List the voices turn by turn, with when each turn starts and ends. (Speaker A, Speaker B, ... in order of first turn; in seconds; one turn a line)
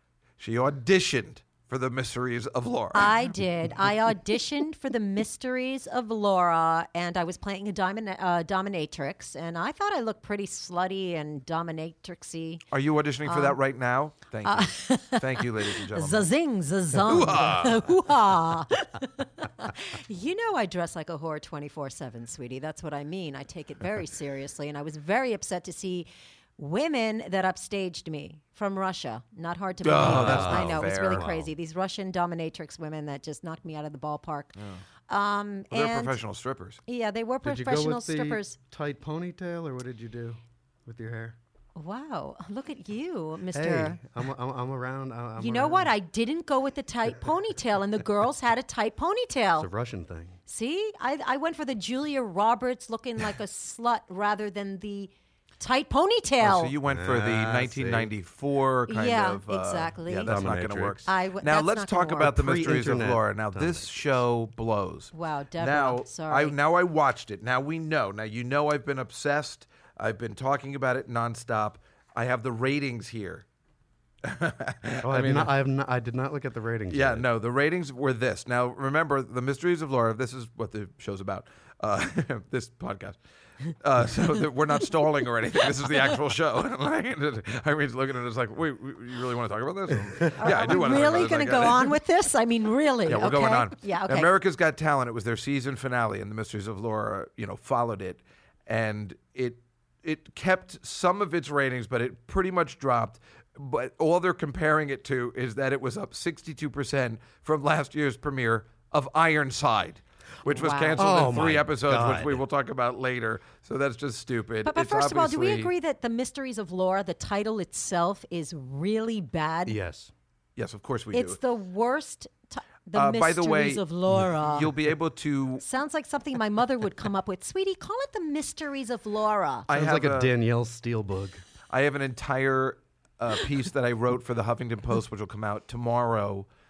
Speaker A: 0.4-3.1
Speaker B: 2.9-12.7
Speaker A: 12.7-16.3
Speaker B: 13.2-13.6
Speaker B: 14.4-34.6
Speaker A: 17.0-17.9
Speaker A: 29.8-31.2
Speaker C: 30.0-31.5
Speaker B: 35.1-36.2
Speaker A: 35.7-36.8
Speaker B: 36.9-38.6
Speaker C: 37.4-41.4
Speaker B: 41.8-44.0
Speaker C: 43.5-45.9
Speaker B: 45.4-49.7
Speaker C: 49.6-50.4
Speaker B: 50.5-56.8
Speaker A: 56.4-73.5
Speaker C: 56.8-58.1
Speaker B: 58.9-60.4
Speaker C: 60.2-61.1
Speaker B: 61.0-62.3
Speaker C: 62.2-64.2
Speaker B: 65.1-66.6
Speaker A: 74.2-75.5
Speaker C: 75.0-77.3
Speaker A: 76.9-91.9
Speaker B: 90.3-94.3
Speaker A: 93.1-115.7
Speaker B: 110.5-111.2
Speaker C: 111.0-112.4
Speaker B: 114.7-119.8
Speaker C: 119.7-120.1
Speaker A: 120.6-121.4
Speaker B: 121.1-124.8
Speaker A: 123.0-125.6
Speaker B: 125.6-129.7
Speaker A: 129.7-130.3
Speaker C: 129.7-131.4
Speaker A: 131.7-136.5